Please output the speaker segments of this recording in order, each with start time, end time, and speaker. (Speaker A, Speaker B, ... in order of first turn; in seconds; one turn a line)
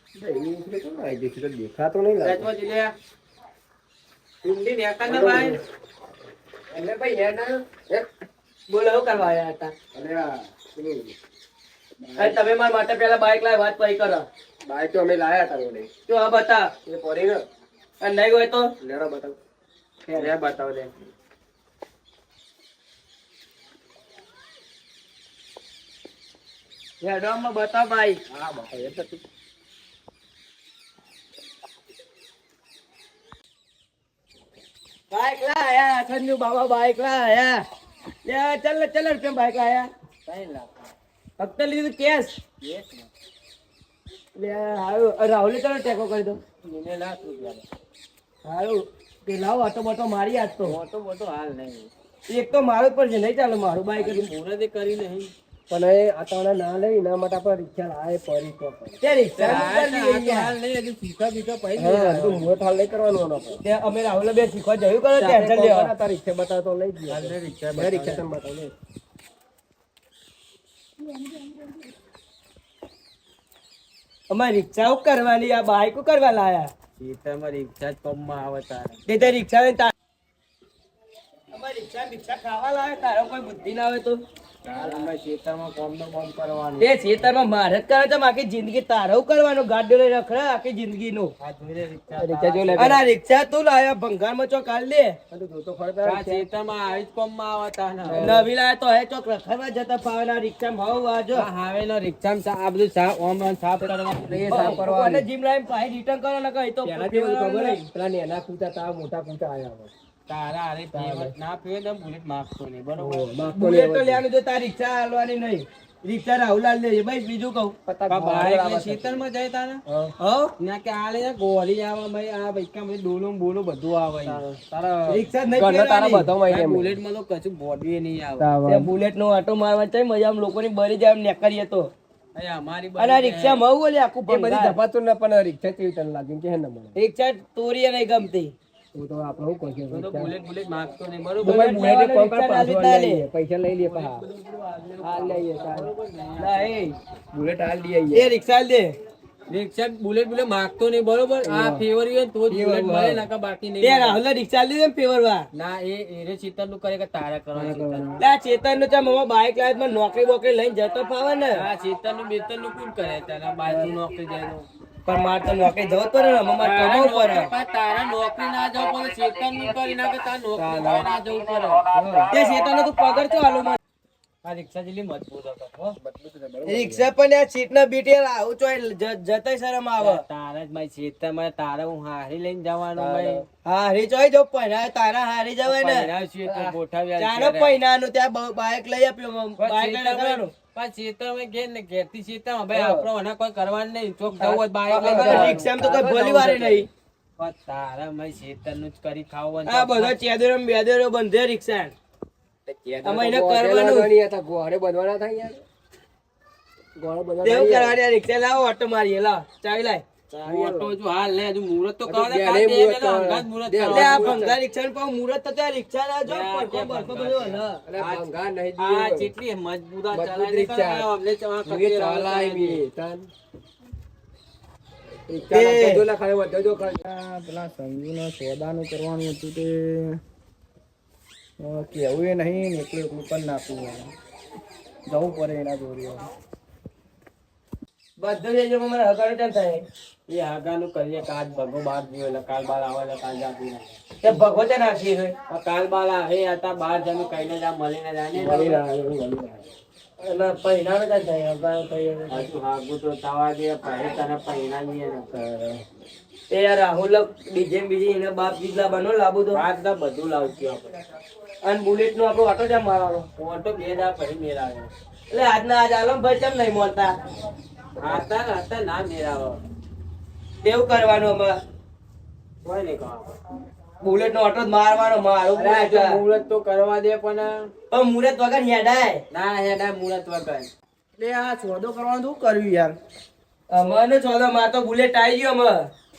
Speaker A: 0.1-2.5
Speaker B: 2.2-2.9
Speaker B: 4.4-5.6
Speaker A: 5.0-5.6
Speaker A: 6.7-8.1
Speaker C: 8.7-9.7
Speaker A: 9.9-11.1
Speaker A: 12.0-12.4
Speaker C: 12.2-14.3
Speaker A: 14.7-15.9
Speaker C: 16.1-16.7
Speaker A: 16.8-17.4
Speaker C: 18.0-18.7
Speaker A: 18.8-19.4
Speaker B: 20.1-20.9
Speaker C: 27.0-28.2
Speaker B: 28.4-29.0
Speaker C: 35.1-37.6
Speaker C: 38.2-39.9
Speaker B: 40.2-40.9
Speaker C: 41.4-42.4
Speaker B: 42.6-43.1
Speaker C: 44.3-46.4
Speaker B: 46.6-47.6
Speaker C: 48.4-50.8
Speaker B: 50.6-51.9
Speaker C: 52.3-54.3
Speaker B: 54.0-55.3
Speaker A: 55.7-59.0
Speaker C: 59.0-60.5
Speaker B: 59.4-62.5
Speaker A: 61.8-63.6
Speaker C: 63.6-65.9
Speaker A: 65.2-68.7
Speaker B: 67.1-68.2
Speaker C: 74.3-76.7
Speaker B: 77.0-79.2
Speaker C: 79.1-79.9
Speaker C: 81.5-84.2
Speaker B: 84.7-86.9
Speaker C: 84.8-85.0
Speaker C: 86.8-91.3
Speaker B: 91.4-93.0
Speaker A: 92.2-93.0
Speaker C: 92.8-95.2
Speaker A: 95.3-96.5
Speaker B: 96.0-98.4
Speaker A: 98.1-98.5
Speaker C: 98.2-101.5
Speaker B: 101.3-104.9
Speaker A: 103.8-105.3
Speaker C: 104.5-107.8
Speaker A: 106.8-109.9
Speaker B: 110.3-113.3
Speaker A: 110.9-111.3
Speaker A: 113.0-114.2
Speaker C: 113.5-117.8
Speaker A: 117.9-119.2
Speaker B: 118.1-119.8
Speaker A: 119.9-120.1
Speaker C: 120.2-120.5
Speaker B: 120.6-124.6
Speaker A: 124.3-127.0
Speaker C: 125.1-126.3
Speaker B: 126.4-128.5
Speaker A: 128.4-128.9
Speaker C: 128.7-131.9
Speaker B: 132.3-133.6
Speaker C: 133.0-134.8
Speaker A: 134.3-136.9
Speaker C: 136.9-138.5
Speaker A: 138.9-140.3
Speaker B: 139.9-141.8
Speaker C: 141.4-143.2
Speaker A: 141.4-144.2
Speaker B: 143.8-146.7
Speaker A: 145.0-145.9
Speaker C: 146.4-146.9
Speaker A: 147.3-148.3
Speaker C: 148.1-148.9
Speaker B: 149.5-154.2
Speaker A: 151.4-151.8
Speaker A: 152.5-153.2
Speaker D: 152.5-152.8
Speaker C: 153.8-155.5
Speaker B: 155.5-158.1
Speaker D: 157.6-158.0
Speaker C: 158.2-161.7
Speaker B: 161.5-164.7
Speaker C: 165.0-167.5
Speaker B: 166.6-171.9
Speaker A: 171.9-172.3
Speaker C: 172.3-173.8
Speaker B: 174.4-176.0
Speaker A: 176.0-177.1
Speaker C: 176.7-180.2
Speaker B: 180.0-183.4
Speaker A: 183.0-183.4
Speaker C: 183.6-190.5
Speaker B: 185.6-187.8
Speaker B: 189.6-195.7
Speaker A: 192.7-193.1
Speaker C: 194.4-196.9
Speaker A: 194.9-196.8
Speaker B: 197.4-200.2
Speaker C: 199.7-201.9
Speaker A: 202.7-205.6
Speaker C: 203.0-204.1
Speaker A: 207.0-208.0
Speaker C: 207.4-210.0
Speaker B: 210.3-214.4
Speaker A: 210.4-210.9
Speaker A: 212.1-214.6
Speaker C: 213.9-217.8
Speaker B: 216.2-222.8
Speaker A: 217.8-219.3
Speaker A: 220.1-221.0
Speaker A: 221.7-223.3
Speaker A: 225.3-227.0
Speaker C: 225.5-226.0
Speaker D: 227.2-229.9
Speaker D: 231.7-232.3
Speaker D: 232.9-233.3
Speaker D: 235.1-236.2
Speaker C: 238.2-239.8
Speaker B: 240.3-244.0
Speaker C: 244.2-245.3
Speaker B: 245.5-248.8
Speaker A: 248.4-249.6
Speaker C: 250.2-252.5
Speaker B: 252.3-255.3
Speaker A: 255.4-255.8
Speaker C: 256.5-259.6
Speaker B: 259.5-260.9
Speaker C: 261.6-263.3
Speaker B: 263.4-264.9
Speaker C: 265.3-267.1
Speaker B: 268.0-269.6
Speaker C: 270.6-271.6
Speaker B: 272.6-273.3
Speaker C: 274.0-276.2
Speaker B: 275.5-277.7
Speaker C: 277.9-279.2
Speaker B: 279.3-280.7
Speaker D: 281.2-282.9
Speaker C: 283.7-285.9